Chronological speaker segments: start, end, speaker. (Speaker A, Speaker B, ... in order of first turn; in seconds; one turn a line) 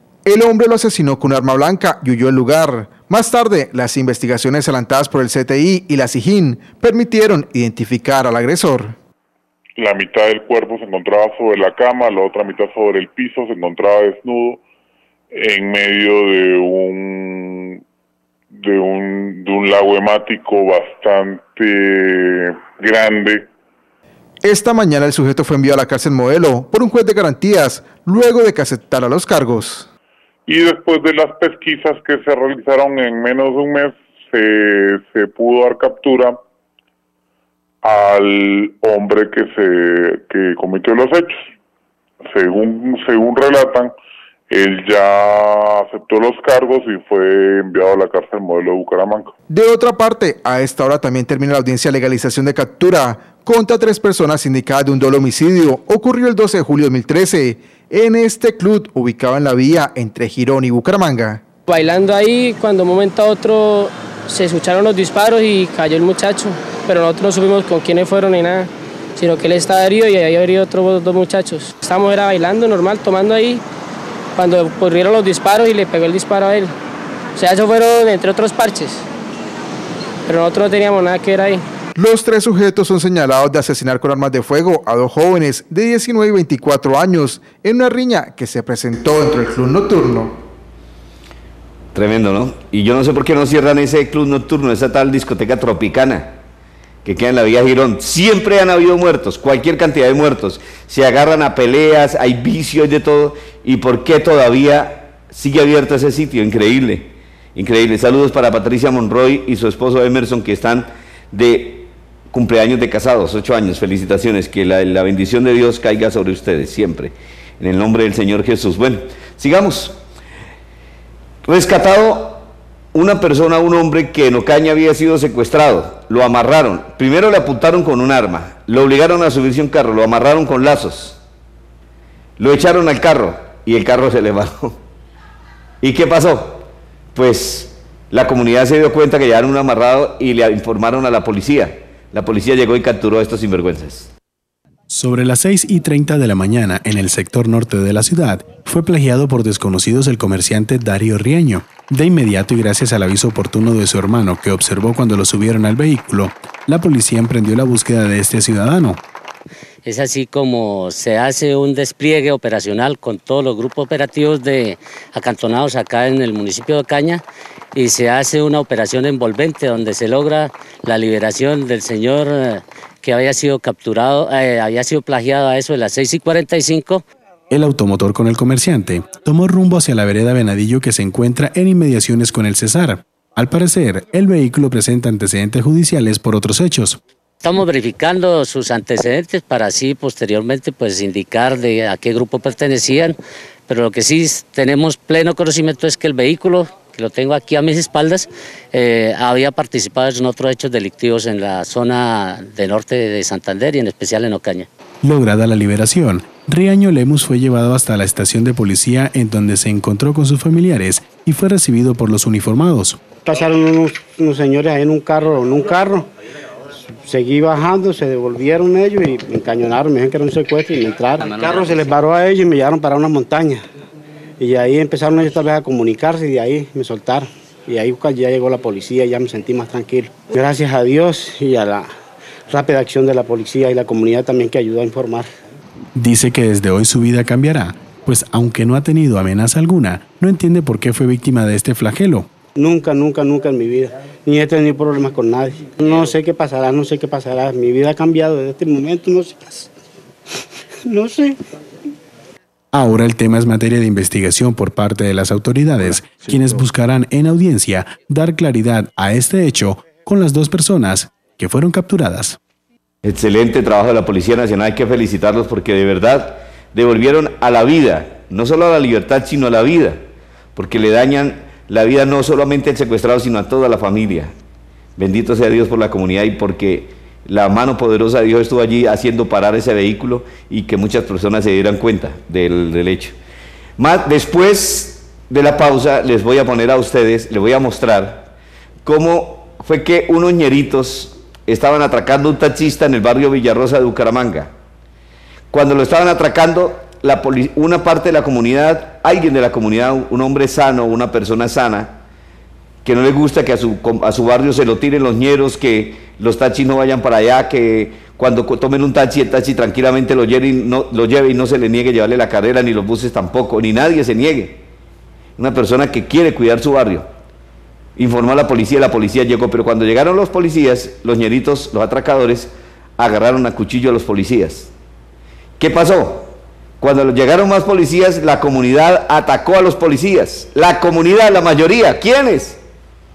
Speaker A: 0.2-8.9
Speaker B: 9.8-14.6
Speaker B: 15.3-17.8
Speaker B: 18.5-23.4
Speaker A: 24.4-29.9
Speaker B: 30.5-36.4
Speaker B: 37.8-41.5
Speaker B: 42.2-43.9
Speaker B: 44.5-49.3
Speaker A: 49.5-61.4
Speaker C: 61.7-73.6
Speaker C: 74.4-76.7
Speaker C: 77.4-79.0
Speaker C: 80.3-81.6
Speaker A: 82.0-90.3
Speaker D: 91.9-96.4
Speaker D: 97.0-120.0
Speaker D: 121.5-131.2
Speaker D: 132.4-134.8
Speaker D: 135.8-144.1
Speaker E: 144.9-159.0
Speaker F: 159.8-167.2
Speaker F: 167.8-177.0
Speaker E: 177.5-187.0
Speaker F: 187.4-193.2
Speaker F: 193.7-204.7
Speaker E: 205.0-213.0
Speaker G: 213.1-216.1
Speaker G: 217.0-223.6
Speaker G: 224.4-231.9
Speaker G: 232.5-235.3
Speaker E: 236.0-242.3
Speaker G: 242.6-249.7
Speaker G: 250.9-251.4
Speaker E: 252.7-262.4
Speaker D: 263.0-270.0
Speaker D: 270.5-274.3
Speaker D: 275.0-283.1
Speaker D: 283.8-288.3
Speaker D: 288.9-294.5
Speaker D: 295.5-302.0
Speaker D: 302.8-314.6
Speaker D: 315.4-317.1
Speaker D: 318.0-324.7
Speaker D: 325.6-332.6